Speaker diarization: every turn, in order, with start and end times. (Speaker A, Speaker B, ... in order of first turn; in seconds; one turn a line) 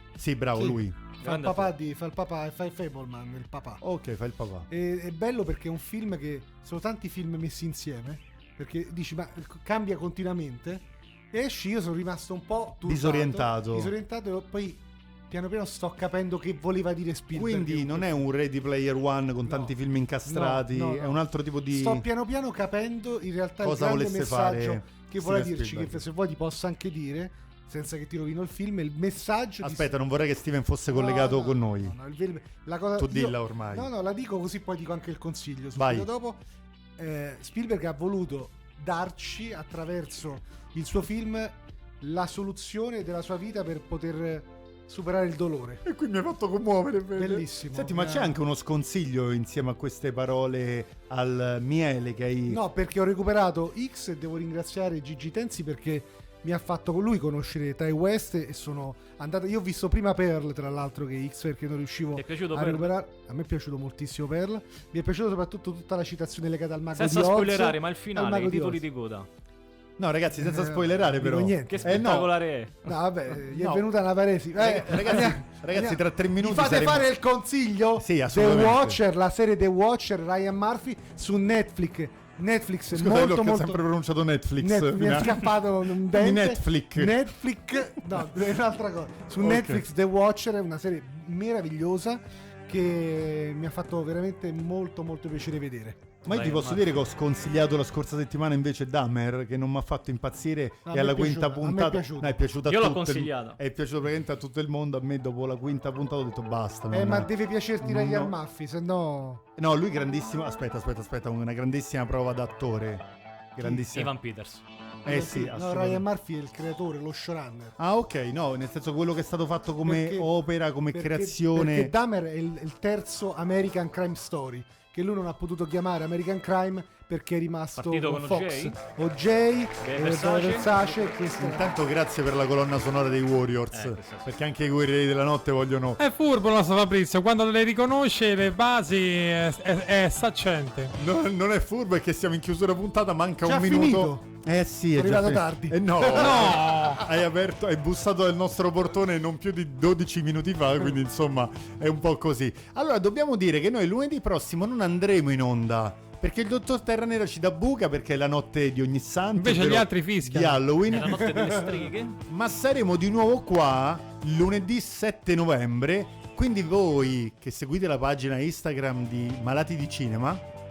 Speaker A: 0.2-1.0
Speaker B: 0.5-3.8
Speaker C: 1.2-1.7
Speaker A: 3.8-4.7
Speaker B: 4.7-18.2
Speaker A: 12.8-13.9
Speaker A: 17.3-22.1
Speaker B: 19.4-19.7
Speaker B: 20.2-29.9
Speaker A: 23.6-26.1
Speaker A: 29.6-31.9
Speaker B: 30.9-36.4
Speaker A: 33.0-33.9
Speaker A: 35.8-36.1
Speaker B: 37.0-45.8
Speaker A: 45.8-52.6
Speaker B: 47.1-48.4
Speaker B: 52.5-68.8
Speaker C: 62.1-62.9
Speaker C: 66.9-69.3
Speaker A: 70.0-72.3
Speaker B: 70.3-72.2
Speaker C: 71.7-73.0
Speaker B: 72.8-83.8
Speaker A: 73.5-73.9
Speaker A: 74.5-77.1
Speaker A: 78.0-79.0
Speaker A: 82.9-87.2
Speaker B: 84.6-96.1
Speaker A: 89.4-89.8
Speaker A: 96.2-108.4
Speaker C: 96.3-96.9
Speaker B: 100.8-102.4
Speaker C: 102.7-103.6
Speaker B: 106.9-109.4
Speaker A: 109.6-114.1
Speaker B: 113.6-113.8
Speaker C: 113.9-114.6
Speaker A: 115.0-116.0
Speaker B: 115.0-117.8
Speaker A: 117.8-121.9
Speaker B: 119.8-120.3
Speaker B: 120.9-131.8
Speaker C: 127.8-128.8
Speaker C: 129.8-131.1
Speaker A: 131.4-136.0
Speaker C: 133.7-134.3
Speaker D: 136.0-140.9
Speaker A: 140.9-161.4
Speaker B: 143.4-144.3
Speaker B: 144.9-146.5
Speaker D: 146.1-147.0
Speaker D: 159.3-160.8
Speaker C: 160.9-162.2
Speaker A: 162.2-170.4